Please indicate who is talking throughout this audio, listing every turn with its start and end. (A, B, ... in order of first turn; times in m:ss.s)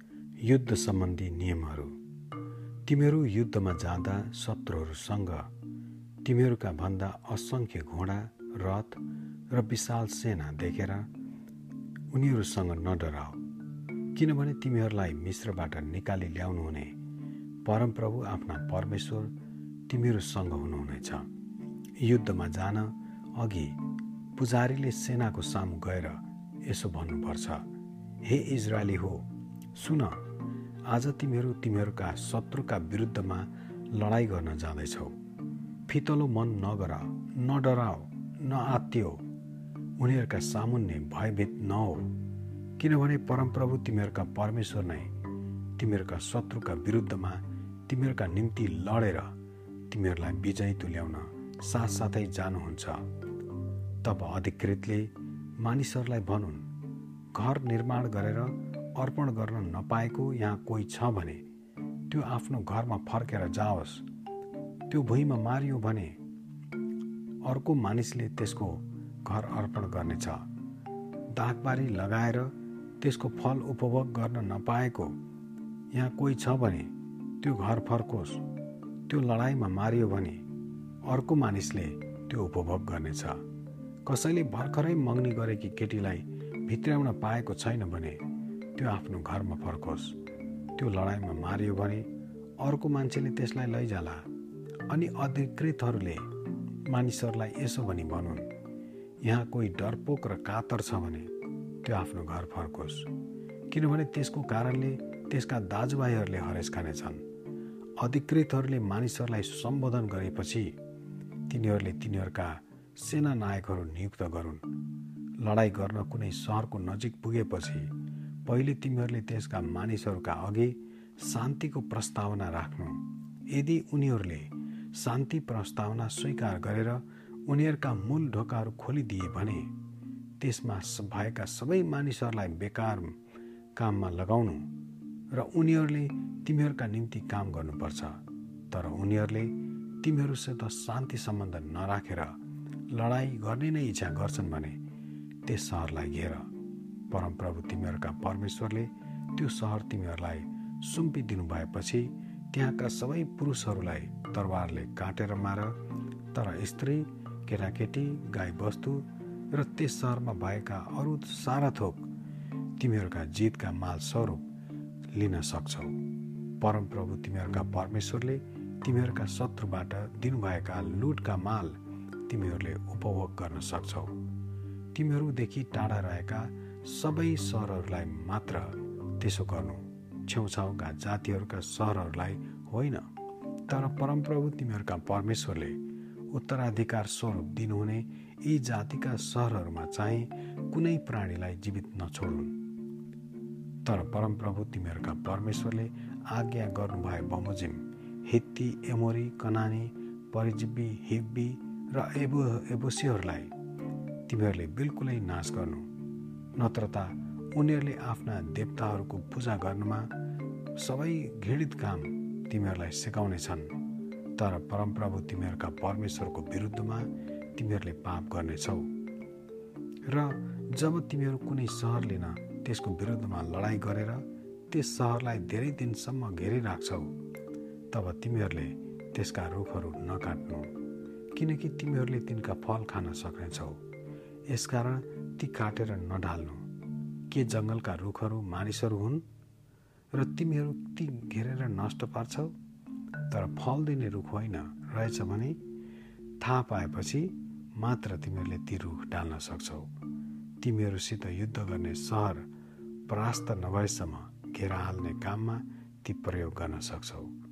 0:00.4-0:01.9 A
0:02.8-0:05.5 A
0:06.2-0:11.1 A
0:12.1-0:13.4 A
0:14.1-0:17.0 A
0:17.6-0:19.3 A
0:19.9-0:21.3 A
0:22.0-0:23.8 A
0:24.4-0:27.6 A
0:28.2-0:30.2 A
0:30.9-0:35.2 A
0:35.9-0:39.2 A
0:40.0-0:42.1 A
0:42.8-0:45.1 A
0:45.8-0:49.3 A
0:49.9-0:53.1 A
0:54.0-0:56.7 A
0:57.3-1:01.4 A
1:02.1-1:04.0 A
1:04.9-1:06.2 A
1:07.4-1:10.4 A
1:11.3-1:15.2 A
1:15.9-1:18.4 A
1:19.1-1:20.4 A
1:21.0-1:23.4 A
1:24.0-1:28.2 A
1:28.7-1:30.2 A
1:30.8-1:32.1 A
1:32.6-1:34.3 A
1:34.9-1:36.3 A
1:36.8-1:38.5 A
1:39.2-1:41.3 A
1:41.8-1:43.1 A
1:43.7-1:47.2 A
1:48.0-1:50.8 A
1:51.5-1:54.8 A
1:55.4-1:57.9 A
1:58.4-2:09.7 A
2:10.4-2:13.2 A
2:13.8-2:14.7 A
2:15.3-2:22.4 A
2:22.9-2:24.8 A
2:25.4-2:26.5 A
2:27.1-2:35.8 A
2:36.3-2:42.1 A
2:42.8-2:44.4 A
2:45.1-2:46.0 A
2:46.6-2:54.2 A
2:54.9-3:03.1 A
3:03.7-3:05.8 A
3:06.3-3:12.6 A
3:13.8-3:23.5 A
3:24.3-3:25.9 A
3:26.6-3:30.1 A
3:30.8-3:33.8 A
3:34.4-3:38.9 A
3:40.0-3:47.1 A
3:47.9-3:50.7 A
3:51.3-3:53.8 A
3:54.5-3:56.6 A
3:57.3-3:59.2 A
4:00.1-4:02.5 A
4:03.3-4:05.6 A
4:06.4-4:09.9 A
4:10.6-4:12.5 A
4:13.1-4:17.3 A